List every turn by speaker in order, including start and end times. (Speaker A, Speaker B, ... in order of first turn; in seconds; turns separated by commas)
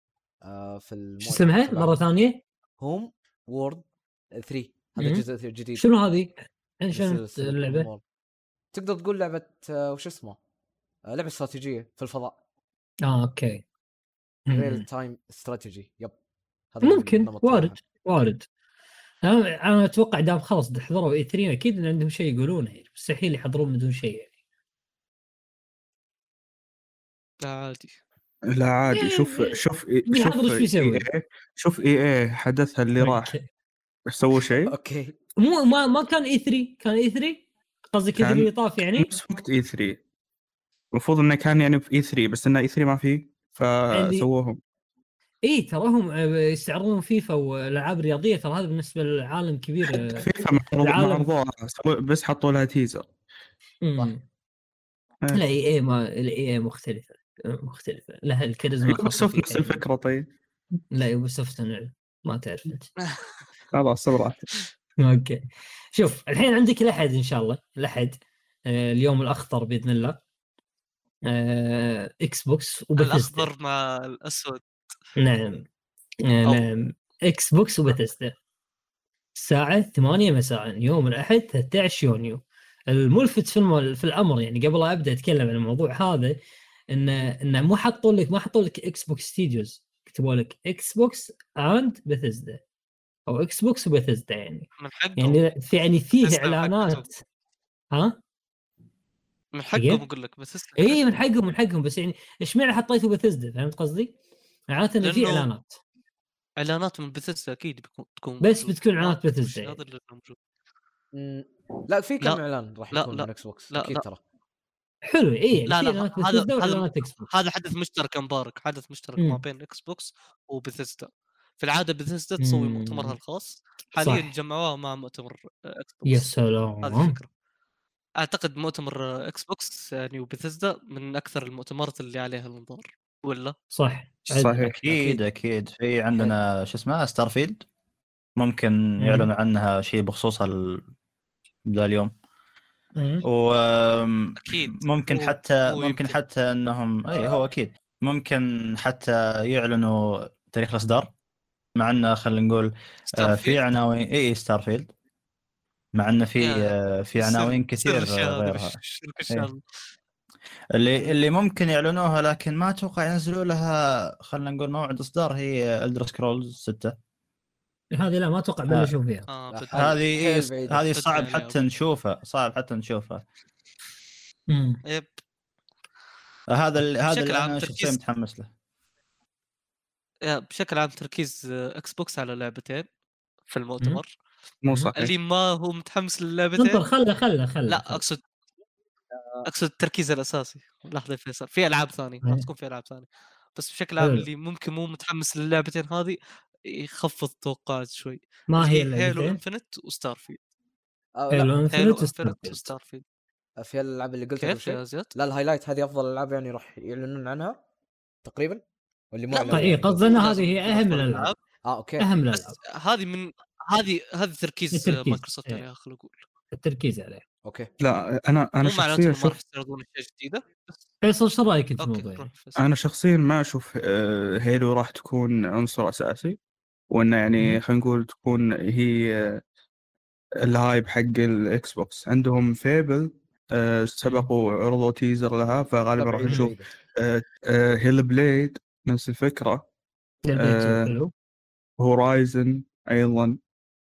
Speaker A: 0.4-1.9, Speaker B: 1.2-2.4, Speaker A: 2.8-3.8, Speaker A: 4.3-5.8, Speaker B: 5.0-5.2, Speaker B: 5.8-7.9, Speaker A: 6.9-8.0, Speaker A: 8.7-10.4, Speaker A: 11.1-12.4, Speaker B: 13.0-13.6, Speaker B: 14.5-14.8, Speaker A: 14.5-16.1, Speaker A: 16.7-17.8, Speaker B: 16.8-18.5, Speaker B: 19.2-24.3, Speaker C: 27.4-28.0, Speaker D: 28.5-33.3, Speaker B: 28.9-31.1, Speaker B: 33.0-33.5, Speaker D: 34.1-34.7, Speaker A: 34.6-35.1, Speaker B: 35.4-39.2, Speaker D: 38.2-40.0, Speaker D: 40.9-44.6, Speaker B: 43.9-44.3, Speaker B: 45.4-51.3, Speaker D: 49.9-53.1, Speaker B: 53.8-54.2, Speaker B: 55.3-59.8, Speaker D: 58.9-60.3, Speaker B: 60.9-62.9, Speaker D: 63.7-64.5, Speaker B: 65.0-70.2, Speaker B: 71.3-73.5, Speaker C: 73.0-74.6, Speaker B: 75.2-75.7, Speaker B: 76.3-78.3, Speaker B: 79.3-86.4, Speaker B: 86.9-92.6, Speaker B: 93.3-97.2, Speaker C: 94.8-95.4, Speaker C: 96.2-97.1, Speaker B: 97.9-98.2, Speaker C: 99.5-101.0, Speaker B: 99.8-100.0, Speaker B: 100.8-104.1, Speaker B: 104.7-105.8, Speaker C: 105.0-105.5, Speaker C: 106.6-110.4, Speaker B: 108.4-109.8, Speaker A: 111.1-114.2, Speaker C: 112.9-114.0, Speaker B: 115.1-117.3, Speaker C: 115.7-121.1, Speaker C: 121.6-126.3, Speaker B: 122.4-123.2, Speaker B: 124.0-124.3, Speaker B: 126.1-127.2, Speaker C: 126.8-127.3, Speaker C: 128.2-133.6, Speaker B: 133.7-135.2, Speaker D: 134.3-134.7, Speaker E: 134.6-137.6, Speaker E: 138.4-140.8, Speaker B: 139.0-139.3, Speaker E: 141.7-142.1, Speaker B: 143.0-143.2, Speaker E: 143.2-151.1, Speaker C: 144.4-146.2, Speaker E: 151.8-154.9, Speaker C: 153.1-153.6, Speaker E: 155.9-158.8, Speaker C: 156.4-159.6, Speaker E: 160.8-166.9, Speaker B: 167.9-169.3, Speaker C: 169.3-170.0, Speaker A: 169.5-170.9, Speaker E: 169.7-173.2, Speaker C: 170.9-171.6, Speaker B: 174.5-174.8, Speaker E: 176.5-178.5, Speaker C: 177.1-178.0, Speaker C: 180.2-182.9, Speaker C: 183.5-184.1, Speaker D: 184.6-185.1, Speaker C: 184.9-186.8, Speaker B: 186.6-188.0, Speaker C: 187.7-188.2, Speaker C: 189.4-200.4, Speaker B: 194.0-194.3, Speaker B: 198.5-199.4, Speaker A: 201.2-201.6, Speaker B: 201.3-202.7, Speaker C: 201.7-203.0, Speaker A: 203.6-207.6, Speaker C: 204.4-205.1, Speaker A: 208.2-208.6, Speaker A: 209.1-210.3, Speaker C: 209.3-211.4, Speaker B: 209.5-211.3, Speaker A: 211.7-212.1, Speaker B: 212.0-212.6, Speaker C: 212.3-216.2, Speaker B: 214.7-215.6, Speaker B: 216.5-217.2, Speaker D: 217.8-219.3, Speaker C: 218.6-220.8, Speaker B: 221.0-222.3, Speaker C: 221.8-222.6, Speaker D: 222.6-226.4, Speaker D: 226.9-229.4, Speaker D: 230.4-239.7, Speaker A: 236.0-236.7, Speaker B: 240.3-241.1, Speaker D: 240.4-240.9, Speaker D: 241.8-243.4